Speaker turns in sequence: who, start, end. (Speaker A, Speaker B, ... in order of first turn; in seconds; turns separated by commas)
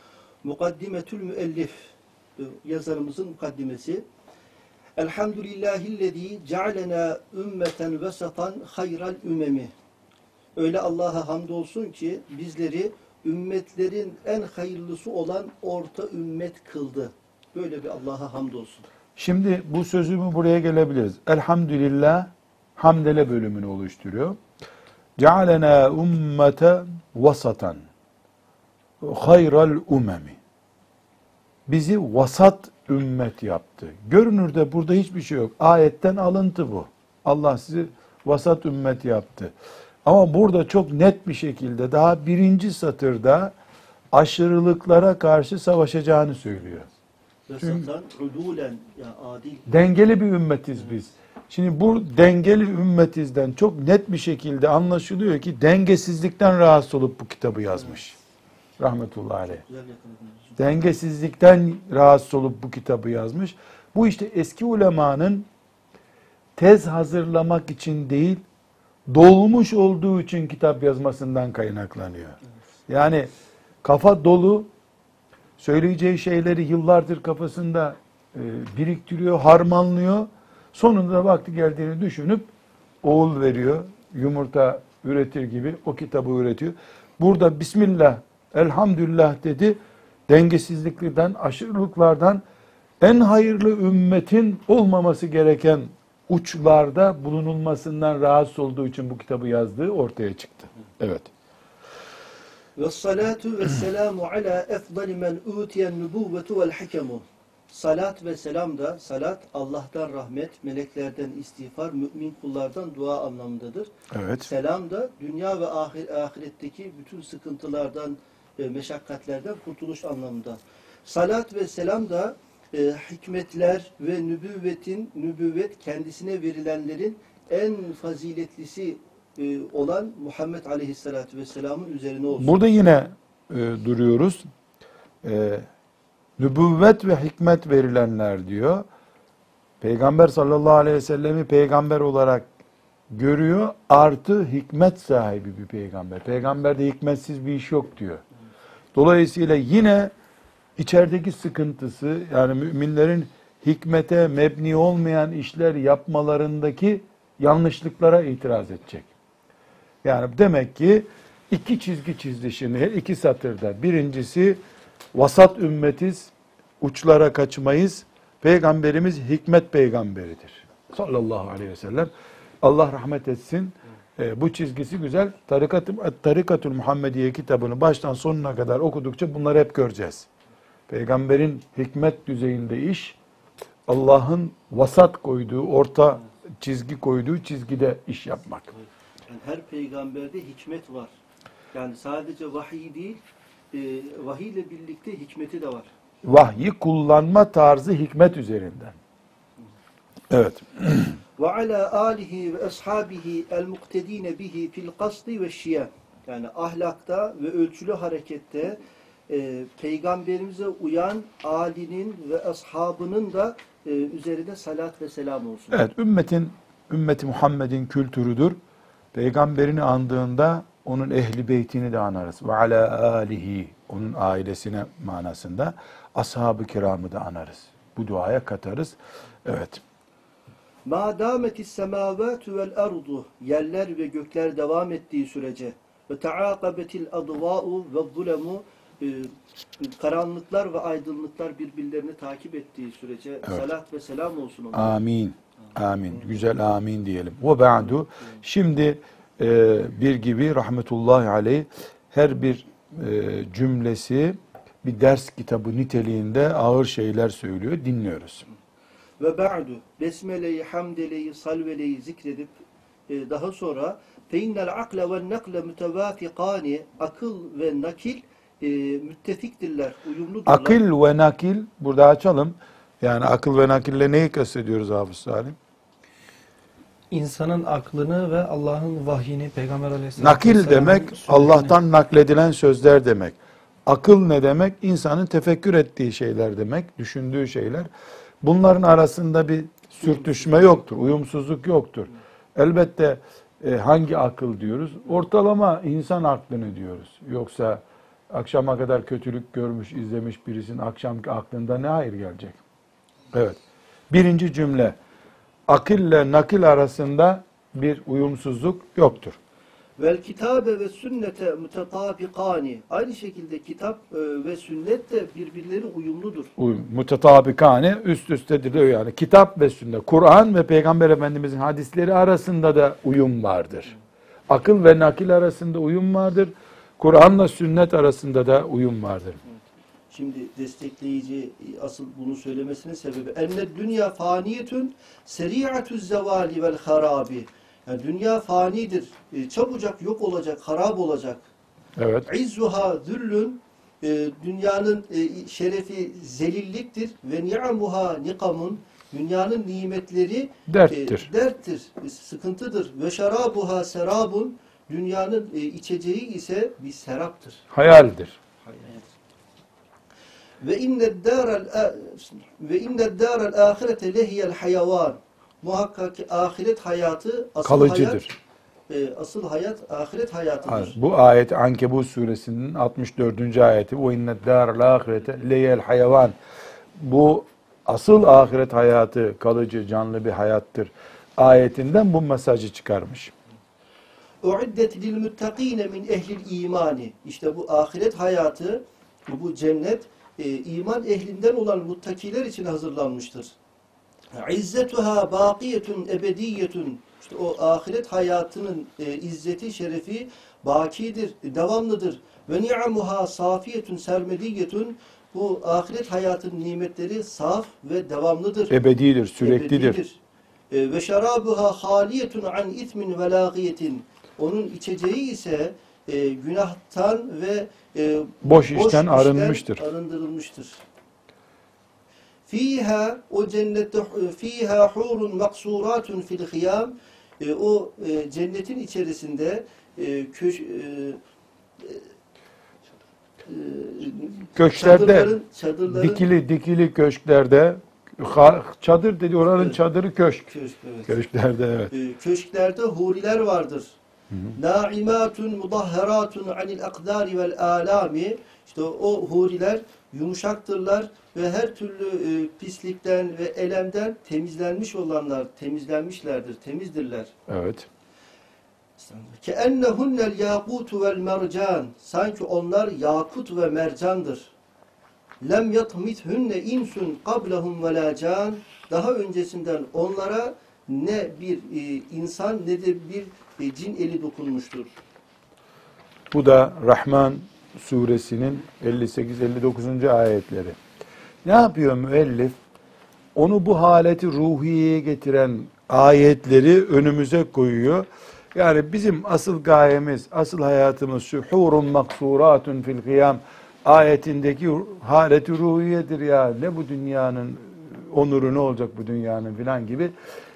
Speaker A: 0.4-4.0, Speaker A: 5.0-9.7, Speaker A: 10.6-18.9, Speaker B: 19.2-24.4, Speaker B: 25.2-27.8, Speaker B: 29.0-30.4, Speaker B: 31.7-39.5, Speaker B: 40.0-43.5, Speaker B: 44.1-46.9, Speaker A: 47.5-49.7, Speaker B: 47.6-47.9, Speaker B: 49.7-58.1, Speaker B: 58.8-59.6, Speaker A: 59.7-60.6, Speaker B: 60.6-65.5, Speaker B: 66.6-68.4, Speaker B: 69.1-73.3, Speaker B: 73.8-74.7, Speaker B: 75.6-82.5, Speaker B: 83.0-92.4, Speaker B: 93.0-101.3, Speaker A: 102.8-132.5, Speaker B: 114.1-114.5, Speaker B: 132.4-134.4, Speaker B: 135.2-135.7, Speaker B: 136.4-138.8, Speaker B: 139.8-142.5, Speaker B: 143.1-148.2, Speaker B: 148.9-150.1, Speaker B: 150.8-159.1, Speaker B: 160.0-164.6, Speaker B: 165.1-172.1, Speaker B: 172.6-180.3, Speaker B: 180.9-183.2, Speaker B: 183.9-188.7, Speaker A: 188.7-191.1, Speaker A: 191.7-195.9, Speaker B: 196.2-198.9, Speaker B: 200.3-201.2, Speaker A: 201.4-215.8, Speaker B: 215.7-218.6, Speaker B: 219.1-229.8, Speaker A: 230.8-245.0, Speaker B: 244.7-258.4, Speaker A: 259.2-270.8, Speaker B: 270.5-275.6, Speaker C: 277.1-281.7, Speaker B: 280.2-287.9, Speaker B: 288.4-302.6, Speaker B: 303.3-305.0, Speaker B: 305.7-309.4, Speaker A: 310.0-316.5, Speaker B: 316.6-323.9, Speaker B: 324.5-329.4, Speaker A: 330.1-341.4, Speaker B: 342.0-342.3, Speaker A: 342.2-357.6, Speaker B: 350.7-351.3, Speaker B: 357.7-358.4, Speaker A: 358.7-359.0, Speaker A: 360.6-368.2, Speaker B: 367.6-368.3, Speaker A: 368.9-370.9, Speaker B: 370.6-376.4, Speaker B: 377.0-383.3, Speaker A: 384.4-393.6, Speaker A: 394.3-408.7, Speaker B: 408.7-410.0, Speaker A: 409.4-410.2, Speaker A: 410.7-420.8, Speaker B: 418.4-419.8, Speaker A: 422.4-431.2, Speaker A: 431.8-432.0, Speaker A: 433.4-436.2, Speaker B: 434.6-435.4, Speaker B: 435.9-440.5, Speaker A: 440.5-441.1, Speaker B: 441.1-441.9, Speaker A: 441.9-443.9, Speaker B: 444.3-444.6, Speaker A: 444.5-457.3, Speaker B: 457.5-457.9, Speaker A: 459.0-464.5, Speaker A: 465.4-474.9, Speaker B: 476.3-480.8, Speaker B: 481.4-482.6, Speaker B: 483.3-500.1